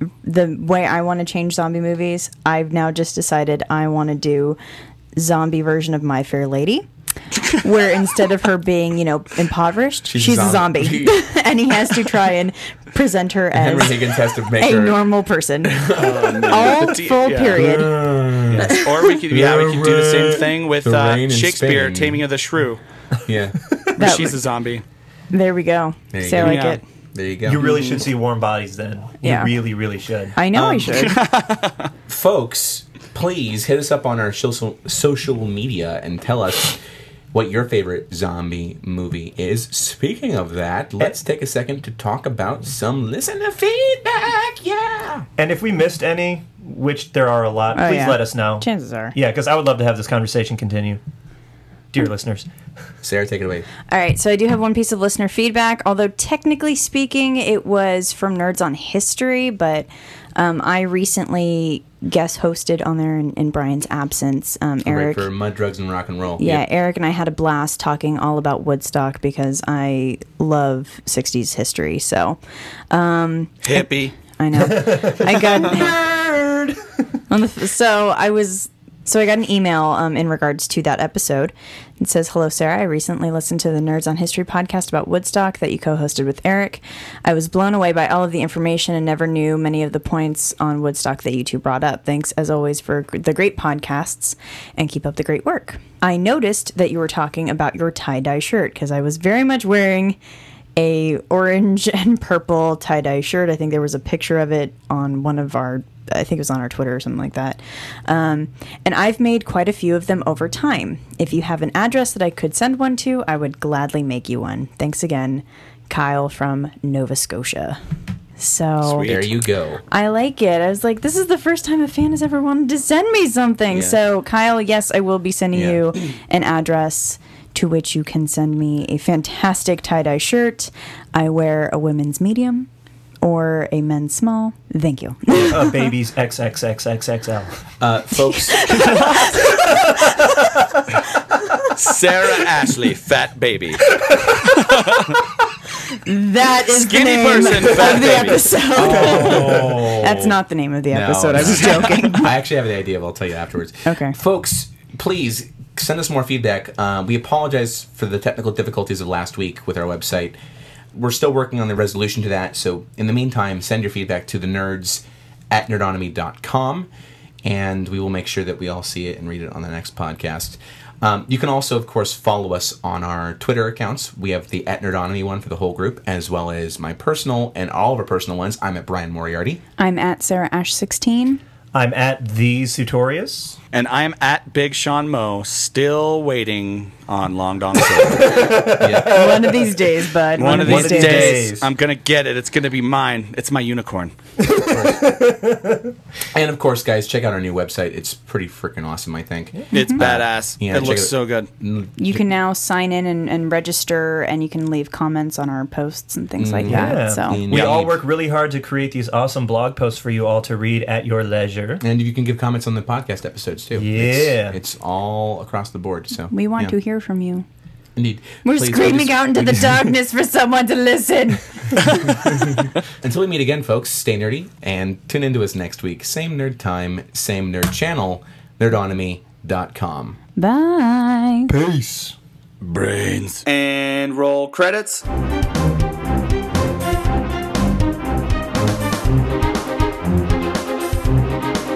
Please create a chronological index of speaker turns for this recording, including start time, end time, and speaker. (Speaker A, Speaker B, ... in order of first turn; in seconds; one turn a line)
Speaker A: 0.2-4.6
Speaker A: 5.1-6.8
Speaker A: 7.5-15.9
Speaker B: 10.1-11.3
Speaker B: 13.5-15.1
Speaker B: 15.6-16.8
Speaker C: 15.9-17.7
Speaker A: 16.4-18.0
Speaker B: 17.5-22.2
Speaker C: 18.4-22.8
Speaker A: 18.6-18.9
Speaker B: 23.2-23.6
Speaker A: 23.9-24.4
Speaker C: 23.9-24.8
Speaker A: 25.3-26.8
Speaker B: 26.1-27.6
Speaker C: 26.4-26.8
Speaker D: 27.4-30.4
Speaker C: 27.6-28.0
Speaker A: 29.2-29.5
Speaker A: 30.4-31.2
Speaker B: 30.5-31.1
Speaker C: 30.9-31.9
Speaker B: 32.1-36.8
Speaker B: 37.3-45.2
Speaker D: 45.4-51.0
Speaker A: 47.7-49.1
Speaker D: 51.9-52.5
Speaker B: 53.0-53.7
Speaker A: 53.9-65.3
Speaker B: 64.8-66.6
Speaker A: 66.4-72.4
Speaker A: 72.9-76.0
Speaker C: 73.6-74.1
Speaker D: 74.5-76.8
Speaker A: 77.3-100.2
Speaker A: 100.8-117.8
Speaker A: 118.4-119.2
Speaker C: 118.8-119.3
Speaker B: 119.0-119.8
Speaker A: 119.9-132.7
Speaker B: 123.7-124.0
Speaker B: 125.5-125.8
Speaker A: 133.2-135.7
Speaker D: 135.4-137.6
Speaker B: 137.8-139.3
Speaker A: 138.3-139.6
Speaker D: 139.5-140.4
Speaker C: 141.7-145.2
Speaker D: 144.0-144.4
Speaker A: 145.9-152.3
Speaker C: 146.7-148.4
Speaker B: 148.7-150.4
Speaker D: 148.9-149.6
Speaker B: 150.9-160.3
Speaker C: 151.3-151.9
Speaker A: 153.8-154.2
Speaker B: 160.9-166.9
Speaker B: 167.4-179.6
Speaker A: 179.8-181.4
Speaker D: 181.7-183.6
Speaker C: 183.7-188.4
Speaker D: 187.9-189.8
Speaker B: 188.8-189.4
Speaker A: 189.0-191.4
Speaker C: 190.4-194.1
Speaker D: 190.5-191.7
Speaker B: 190.7-191.1
Speaker D: 194.4-195.9
Speaker B: 194.7-195.1
Speaker B: 196.3-202.3
Speaker A: 199.7-200.0
Speaker C: 199.7-201.5
Speaker A: 202.0-207.4
Speaker B: 206.4-208.0
Speaker D: 206.7-211.8
Speaker C: 207.5-207.9
Speaker B: 211.8-216.8
Speaker D: 213.7-214.6
Speaker A: 216.3-217.4
Speaker B: 217.9-219.9
Speaker A: 218.4-221.4
Speaker B: 223.0-230.2
Speaker A: 230.4-231.5
Speaker C: 232.6-235.0